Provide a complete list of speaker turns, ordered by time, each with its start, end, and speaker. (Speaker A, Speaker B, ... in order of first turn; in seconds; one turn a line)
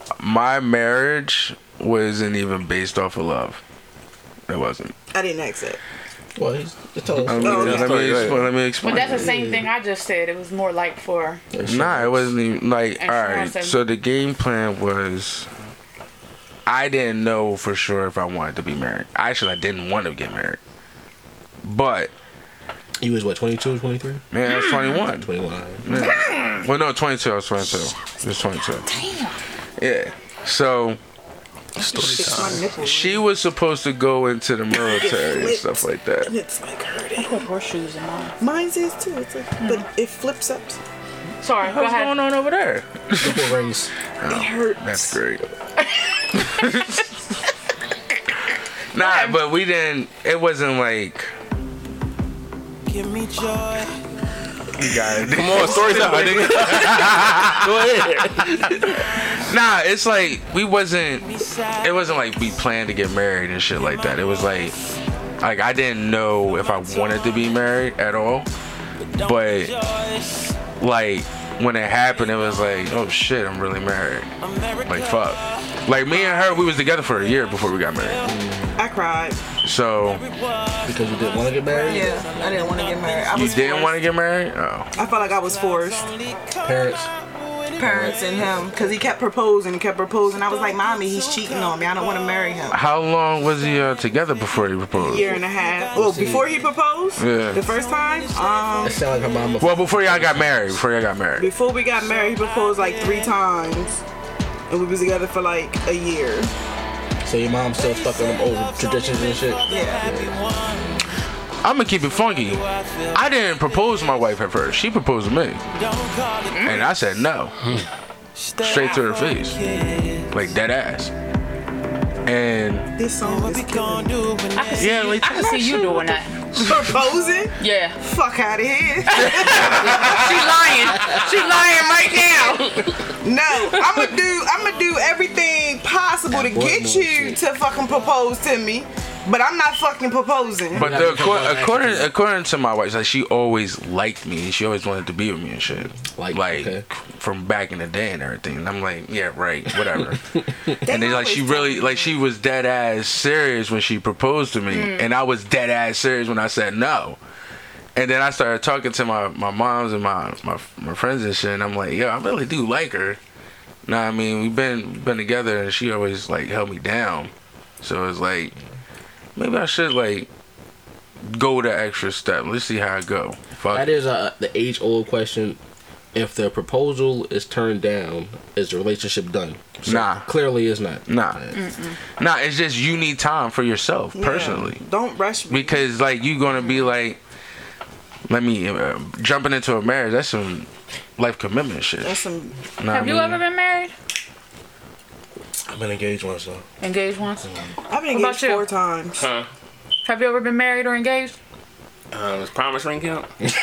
Speaker A: 0.2-3.6
Speaker A: 4.5-4.9
Speaker B: 5.1-5.8
Speaker C: 6.4-8.3
Speaker A: 7.2-9.4
Speaker D: 7.4-8.5
Speaker B: 7.4-8.1
Speaker E: 8.8-11.4
Speaker C: 9.2-9.6
Speaker C: 11.5-12.3
Speaker A: 11.6-15.5
Speaker E: 13.0-13.8
Speaker A: 16.6-20.6
Speaker A: 21.6-22.1
Speaker C: 23.0-24.2
Speaker A: 24.3-25.3
Speaker E: 24.6-24.9
Speaker C: 25.2-25.9
Speaker A: 25.8-29.0
Speaker E: 25.9-26.6
Speaker E: 28.7-29.4
Speaker A: 29.8-31.0
Speaker D: 31.8-32.6
Speaker B: 31.8-33.2
Speaker A: 32.1-36.3
Speaker B: 34.8-37.4
Speaker E: 37.1-38.4
Speaker B: 38.4-40.8
Speaker E: 39.6-39.9
Speaker E: 41.4-42.1
Speaker A: 41.6-43.5
Speaker C: 43.2-43.9
Speaker A: 44.2-45.5
Speaker B: 44.2-45.1
Speaker E: 46.0-46.4
Speaker A: 46.5-47.0
Speaker A: 48.9-51.3
Speaker E: 49.0-49.4
Speaker A: 54.7-64.8
Speaker D: 55.3-59.0
Speaker A: 65.4-68.5
Speaker A: 69.2-69.8
Speaker A: 70.8-74.3
Speaker A: 74.8-78.3
Speaker C: 78.2-78.8
Speaker B: 78.8-79.4
Speaker A: 79.6-80.3
Speaker C: 80.8-82.2
Speaker B: 81.8-84.0
Speaker A: 83.3-84.9
Speaker B: 85.0-86.1
Speaker C: 86.6-87.1
Speaker B: 87.8-92.8
Speaker C: 87.8-88.4
Speaker A: 92.7-95.4
Speaker B: 95.0-99.0
Speaker C: 95.9-96.5
Speaker A: 97.2-97.7
Speaker C: 98.8-100.6
Speaker A: 99.6-101.5
Speaker B: 101.4-104.0
Speaker B: 104.7-106.5
Speaker C: 107.2-110.3
Speaker B: 109.7-110.1
Speaker A: 111.6-115.6
Speaker E: 116.5-116.9
Speaker A: 116.6-117.5
Speaker A: 118.6-121.1
Speaker A: 122.2-122.9
Speaker B: 123.0-124.4
Speaker E: 124.5-126.9
Speaker A: 124.7-126.2
Speaker B: 126.6-130.2
Speaker E: 127.6-128.0
Speaker E: 129.1-132.8
Speaker A: 129.2-130.5
Speaker B: 133.2-140.9
Speaker E: 133.7-134.0
Speaker C: 136.3-137.4
Speaker A: 140.7-150.2
Speaker C: 140.7-142.1
Speaker C: 146.0-146.8
Speaker B: 150.8-151.9
Speaker A: 150.8-157.2
Speaker E: 154.7-155.1
Speaker A: 157.9-163.2
Speaker A: 163.8-168.5
Speaker A: 169.3-170.3
Speaker A: 171.2-173.9
Speaker C: 173.7-175.6
Speaker C: 176.1-181.6
Speaker A: 179.8-180.4
Speaker A: 181.1-181.4
Speaker E: 181.5-182.0
Speaker A: 182.1-184.8
Speaker B: 184.1-185.8
Speaker A: 185.5-187.2
Speaker A: 188.3-192.2
Speaker B: 192.0-192.6
Speaker A: 192.8-193.4
Speaker E: 192.9-193.9
Speaker C: 195.7-196.6
Speaker E: 196.8-197.5
Speaker B: 197.9-199.2
Speaker E: 198.0-198.7
Speaker D: 199.2-199.5
Speaker E: 200.1-201.3
Speaker D: 202.1-203.3